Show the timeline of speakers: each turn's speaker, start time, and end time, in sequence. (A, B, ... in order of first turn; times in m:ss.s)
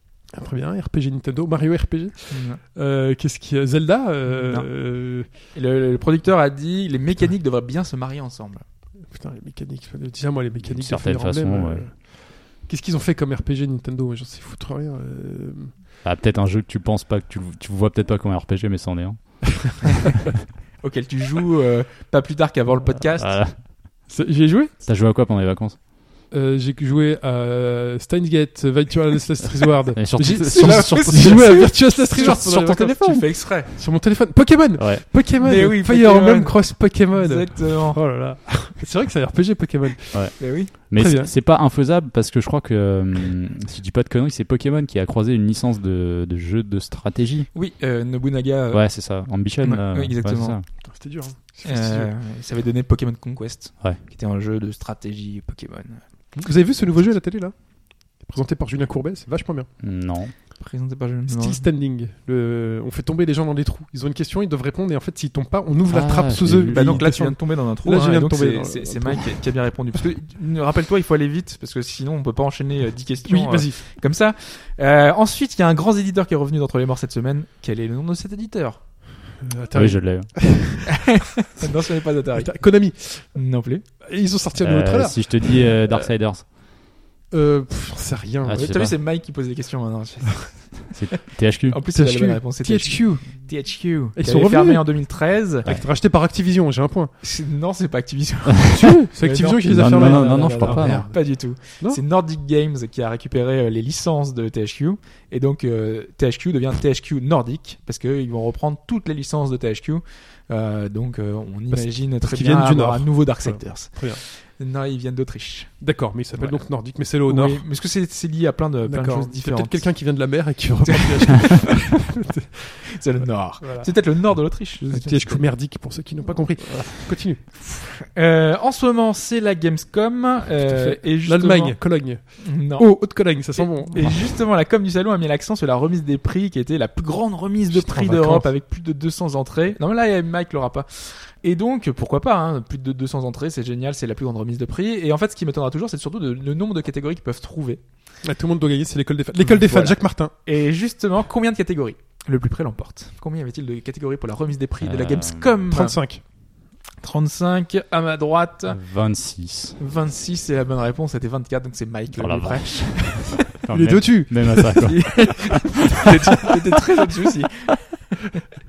0:00.3-0:05.3 A
0:02.3-0:02.6 B
0:04.3-0:04.7 B
0:05.4-0:08.6 B
0:09.1-0:15.7 A
0:10.7-0:11.8 C
0:16.0-0:20.2 C
0:20.8-0:23.4 B
0:23.2-0:23.6 C
0:24.1-0:24.7 A
0:24.8-0:25.8 C
0:26.3-0:41.3 A
0:30.0-0:33.2 C
0:30.5-0:33.7 B
0:34.8-0:35.2 C
0:35.4-0:38.0 B
0:40.1-0:47.5 C
0:40.4-0:40.7 B
0:47.5-0:48.8 B
0:48.7-0:50.6 C
0:49.6-0:50.6 B
0:50.8-0:52.1 A
0:51.6-0:56.0 B
0:56.3-0:57.6 A
0:58.1-0:59.7 A
0:59.8-1:00.3 C
1:00.6-1:01.6 B
1:01.3-1:09.4 A
1:05.9-1:07.0 C
1:06.7-1:18.8 B
1:13.2-1:13.8 A
1:19.4-1:20.8 A
1:19.7-1:20.7 C
1:21.0-1:23.8 B
1:22.3-1:23.4 A
1:24.0-1:25.8 A
1:24.6-1:26.5 C
1:27.3-1:28.6 A
1:28.4-1:29.0 C
1:28.5-1:31.0 B
1:30.9-1:31.8 C
1:31.7-1:35.7 B
1:31.9-1:33.4 A
1:34.1-1:34.9 A
1:35.6-1:37.1 A
1:37.2-2:00.1 B
1:38.7-1:41.2 A
1:39.7-1:41.1 C
1:51.7-1:54.2 A
1:55.8-1:57.6 A
1:58.8-2:07.4 A
2:00.8-2:01.9 B
2:02.9-2:05.5 B
2:07.6-2:27.8 B
2:10.6-2:14.2 A
2:17.7-2:18.5 A
2:28.2-2:30.3 A
2:29.4-2:36.0 B
2:34.8-2:35.6 C
2:35.7-2:36.2 A
2:37.0-2:38.8 B
2:38.7-2:39.8 C
2:39.8-2:43.4 B
2:42.2-2:45.8 C
2:43.7-2:44.8 A
2:44.8-2:47.7 B